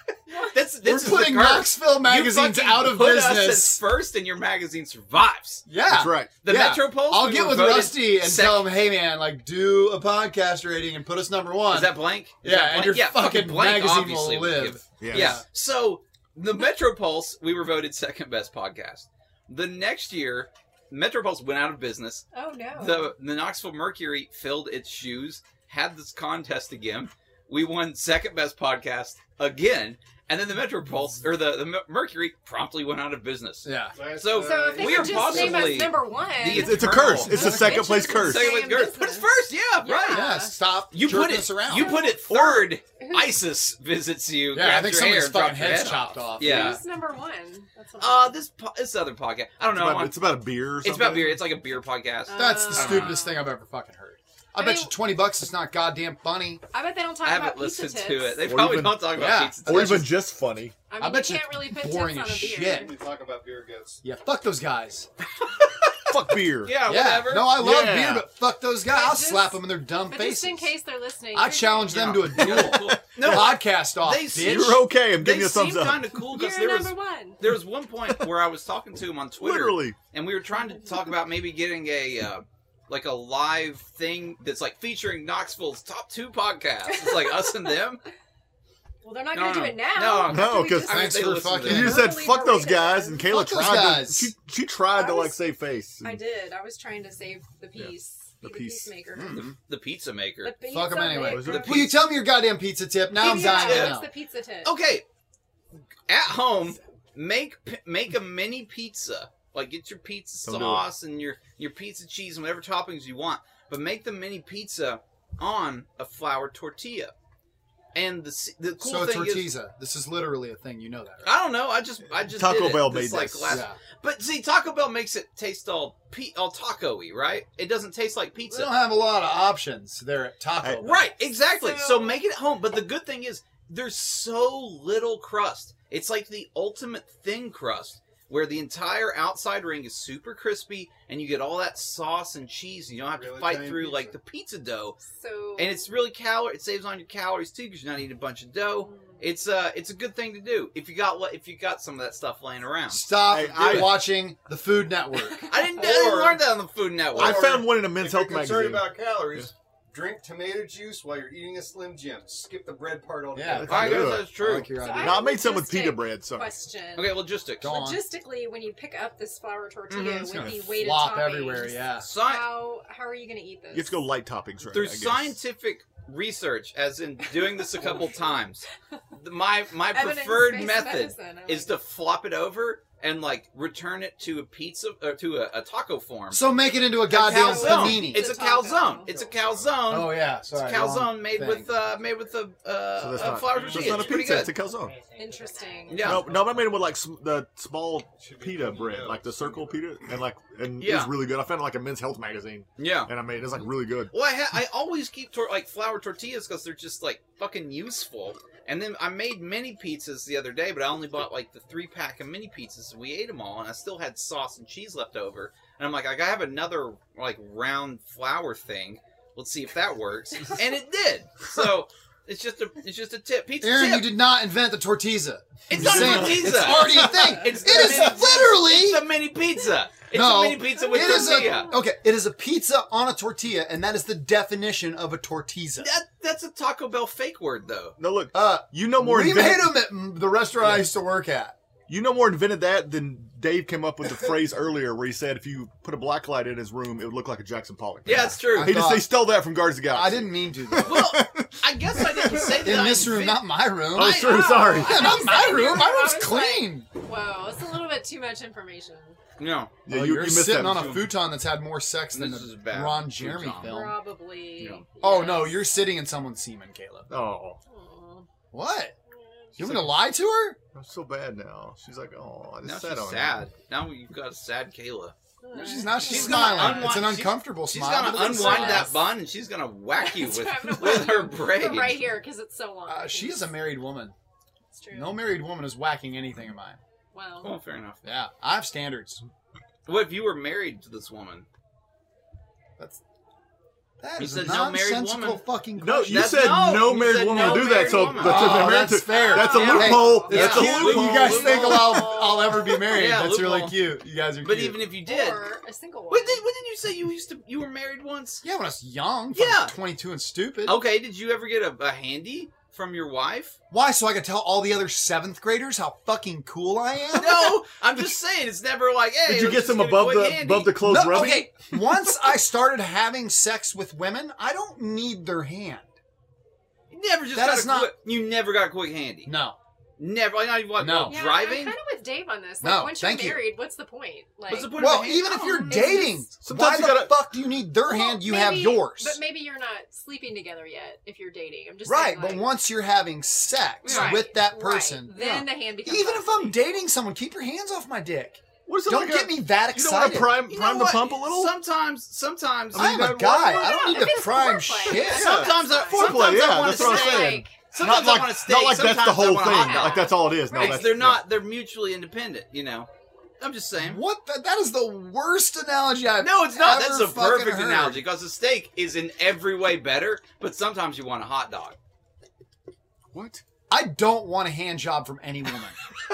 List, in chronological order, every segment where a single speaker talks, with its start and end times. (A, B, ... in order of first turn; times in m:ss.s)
0:00.4-0:05.7 A
0:00.8-0:03.8 B
0:05.7-0:15.4 B
0:05.9-0:06.3 C
0:06.4-0:08.7 A
0:11.7-0:22.3 A
0:15.0-0:15.4 C
0:22.3-0:23.1 D
0:22.8-0:40.4 A
0:33.6-0:34.0 B
0:33.9-0:35.9 E
0:34.4-0:39.3 D
0:36.5-0:38.6 C
0:37.1-0:38.1 B
0:39.8-0:40.5 D
0:40.1-0:42.1 B
0:40.9-0:46.8 A
0:41.7-0:42.2 D
0:42.3-0:42.7 C
0:43.0-0:43.4 D
0:44.5-0:46.8 B
0:46.4-0:48.4 D
0:48.0-0:50.3 A
0:49.7-0:51.4 C
0:50.8-0:53.2 A
0:52.3-0:53.4 D
0:52.3-0:56.6 B
0:54.6-0:55.0 D
0:56.7-0:58.4 D
0:57.2-1:00.1 A
0:58.4-1:00.8 C
0:59.1-1:00.1 B
1:00.9-1:02.9 D
1:01.0-1:02.9 B
1:02.6-1:04.0 E
1:04.0-1:05.1 B
1:06.1-1:06.8 C
1:06.6-1:07.6 A
1:06.8-1:10.7 B
1:07.5-1:08.3 C
1:08.9-1:12.2 D
1:11.3-1:14.9 B
1:11.9-1:28.0 A
1:12.4-1:13.6 C
1:14.3-1:16.1 C
1:16.3-1:17.4 D
1:19.4-1:20.0 C
1:20.5-1:21.1 D
1:26.9-1:27.8 D
1:29.0-1:31.1 D
1:29.3-1:32.0 A
1:30.2-1:36.2 C
1:30.9-1:32.1 B
1:31.6-1:33.3 D
1:33.3-1:34.3 B
1:34.9-1:35.4 D
1:36.0-1:39.5 D
1:37.8-1:38.9 C
1:39.1-1:39.6 B
1:39.3-1:40.6 A
1:40.4-1:41.8 D
1:40.7-1:44.1 B
1:41.3-1:42.0 C
1:41.5-1:42.0 A
1:43.2-1:44.7 D
1:43.2-1:44.0 A
1:44.6-1:45.0 A
1:46.1-1:57.1 A
1:50.4-1:50.8 C
1:57.9-1:59.5 A
1:58.8-2:01.3 B
2:01.2-2:08.7 A
2:02.3-2:03.6 C
2:03.5-2:03.8 B
2:08.5-2:11.1 B
2:10.8-2:25.0 A
2:11.5-2:12.2 D
2:23.2-2:24.2 E
2:25.0-2:25.8 D
2:25.6-2:33.0 A
2:28.8-2:29.2 D
2:32.9-2:35.5 B
2:33.3-2:34.0 C
2:35.5-2:37.6 A
2:35.8-2:36.4 E
2:37.1-2:44.1 E
2:37.2-2:39.5 C
2:43.3-2:45.2 B
2:43.5-2:44.3 C
2:43.7-2:44.7 A
2:44.8-2:54.0 D
2:45.0-2:46.5 C
2:47.0-2:47.7 A
2:47.6-2:48.0 B
2:49.9-2:50.6 A
2:50.3-2:50.7 C
2:50.8-2:52.1 B
2:52.0-2:52.5 A
2:53.7-2:55.4 C
2:54.7-3:06.5 A
2:57.3-2:57.9 D
2:59.9-3:01.7 D
3:06.3-3:08.3 B
3:07.1-3:14.5 A
3:07.2-3:09.1 D
3:09.1-3:09.7 E
3:09.9-3:11.7 B
3:13.0-3:14.9 C
3:13.2-3:16.6 E
3:15.2-3:16.2 D
3:15.9-3:16.3 A
3:16.0-3:24.1 C
3:18.1-3:19.8 E
3:20.8-3:21.1 A
3:22.8-3:23.1 A
3:24.1-3:44.1 A
3:43.6-3:49.1 B
3:45.7-3:51.7 A
3:45.7-3:47.1 C
3:47.0-3:47.4 D
3:50.1-3:55.9 B
3:50.8-3:51.8 D
3:55.8-3:58.0 A
3:58.0-3:59.8 C
3:58.3-4:01.6 B
4:00.6-4:00.9 C
4:01.9-4:12.8 C
4:08.1-4:08.8 A
4:08.4-4:09.1 B
4:09.9-4:11.1 B
4:10.8-4:14.8 A
4:12.6-4:16.9 B
4:13.9-4:15.4 C
4:14.1-4:19.2 D
4:19.4-4:19.8 A
4:19.9-4:21.2 C
4:19.9-4:24.0 B
4:20.7-4:21.0 A
4:22.1-4:23.8 A
4:23.7-4:25.6 D
4:25.0-4:27.2 B
4:27.1-4:27.6 C
4:27.7-4:28.3 D
4:28.5-4:28.9 B
4:29.1-4:29.5 D
4:29.6-4:30.0 C
4:29.6-4:30.6 B
4:30.7-4:33.4 C
4:32.6-4:35.2 A
4:35.4-4:37.0 D
4:35.5-4:39.0 B
4:36.0-4:42.0 A
4:38.3-4:38.9 D
4:40.0-4:43.5 D
4:42.9-4:44.2 B
4:44.7-4:45.2 D
4:44.9-4:46.8 B
4:47.1-4:47.6 D
4:47.4-4:48.0 A
4:48.0-4:49.2 B
4:49.9-4:51.5 A
4:54.0-4:56.5 B
4:54.2-4:55.4 A
4:55.8-5:01.8 C
4:56.1-4:58.8 A
4:57.4-5:04.8 B
4:57.4-4:58.2 D
4:58.8-5:02.9 D
4:59.4-5:03.8 A
5:04.4-5:05.5 A
5:05.1-5:06.4 D
5:06.1-5:08.4 A
5:08.4-5:10.8 B
5:09.4-5:09.8 A
5:10.6-5:13.6 A
5:13.7-5:17.6 B
5:17.1-5:21.5 A
5:19.3-5:21.5 C
5:20.8-5:25.9 B
5:26.9-5:29.3 A
5:27.3-5:27.9 B
5:29.3-5:29.6 B
5:30.0-5:31.8 A
5:30.8-5:31.2 B
5:31.1-5:36.3 D
5:32.6-5:33.5 B
5:34.5-5:36.1 A
5:34.7-5:39.2 B
5:36.4-5:37.2 C
5:37.8-5:42.5 D
5:41.9-5:50.5 B
5:43.8-5:46.6 D
5:43.8-5:44.2 A
5:48.7-5:51.5 C
5:50.5-5:53.1 A
5:52.7-5:53.8 C
5:52.7-5:55.5 B
5:53.4-5:57.5 D
5:54.8-6:02.9 A
5:55.1-6:01.2 C
5:59.5-6:01.1 D
6:03.4-6:04.0 A
6:03.8-6:08.0 B
6:06.2-6:11.8 A
6:13.1-6:13.4 C
6:13.7-6:15.8 B